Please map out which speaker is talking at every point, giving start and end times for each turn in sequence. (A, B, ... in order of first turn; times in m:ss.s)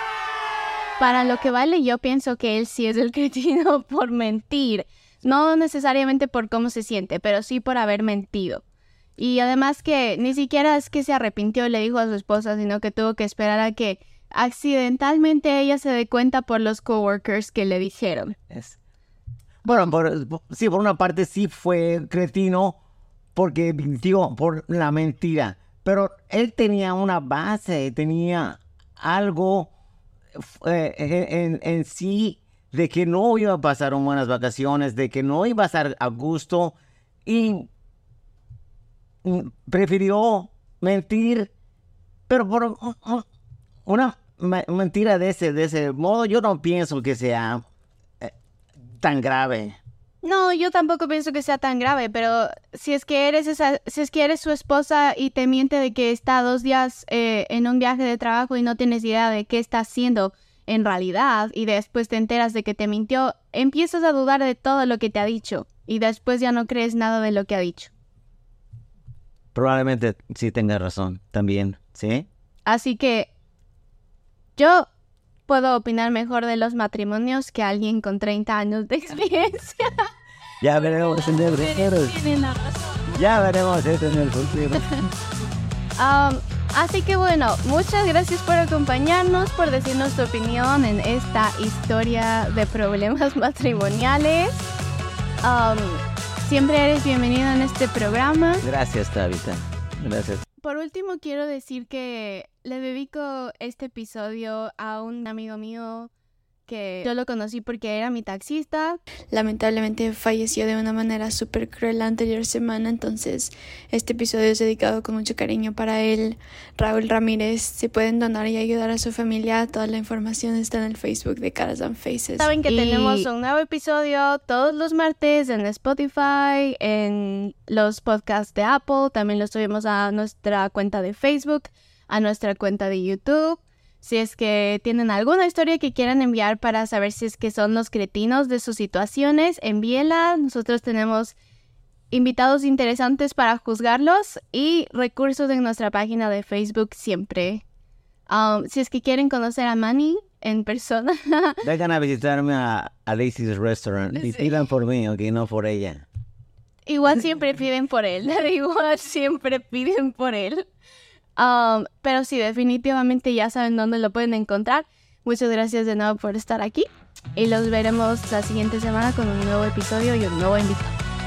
0:01.0-0:08.6 A
0:09.2-0:18.3 A
0:18.5-0:18.8 B
0:19.6-0:22.8 B
0:23.4-0:29.7 B
0:30.3-0:37.7 B
0:39.2-0:41.5 B
0:42.3-0:43.2 B
0:43.8-0:47.6 B
0:49.0-0:49.8 B
0:50.2-1:07.9 A
1:09.5-1:12.3 B
1:12.6-1:13.3 A
1:14.6-1:14.9 A
1:15.5-1:19.9 A
1:20.6-1:22.2 B
1:20.9-1:23.2 A
1:23.1-1:25.0 B
1:26.0-1:34.7 A
1:35.4-1:38.6 A
1:38.6-1:40.4 B
1:40.6-1:46.1 A
1:46.7-1:49.0 A
1:49.3-2:03.2 C
2:02.4-2:21.4 A
2:22.1-2:27.6 A
2:28.3-2:31.6 A
2:31.6-2:36.0 B
2:34.2-2:34.5 A
2:36.8-2:40.7 A
2:41.4-2:51.0 A